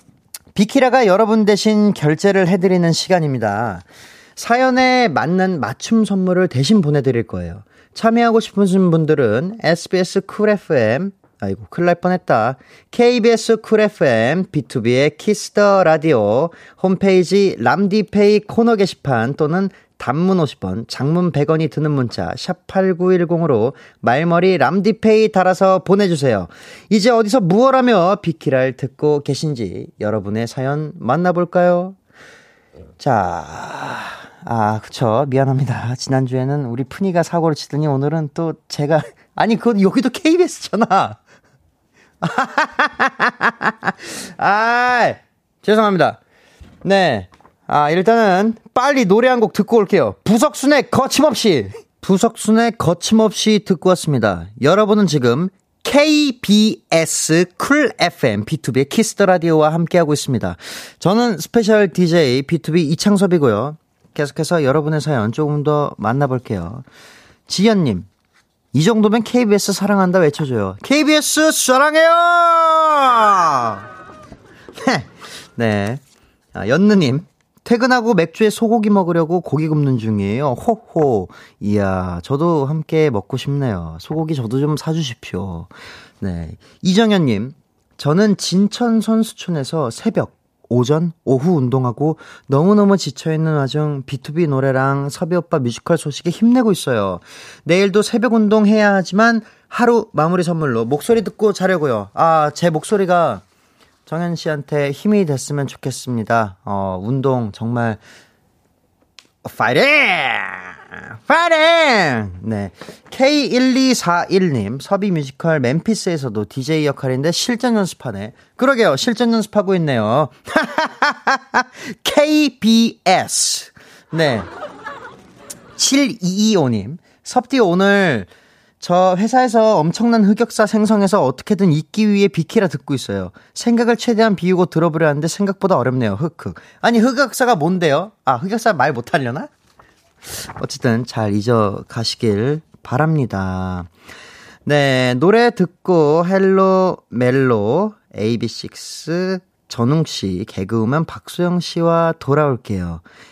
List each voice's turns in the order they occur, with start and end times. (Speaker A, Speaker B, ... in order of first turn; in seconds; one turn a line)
Speaker A: 0.5-3.8
Speaker A: 4.3-32.0
Speaker A: 33.0-41.2
Speaker A: 42.2-46.2
Speaker A: 46.8-66.8
Speaker A: 67.5-68.1
Speaker A: 68.7-73.9
Speaker A: 74.8-76.0
Speaker A: 76.5-103.4
Speaker A: 104.1-108.0
Speaker A: 109.4-124.5
Speaker A: 125.8-128.3
Speaker A: 128.8-139.5
Speaker A: 140.3-143.9
Speaker A: 144.7-153.0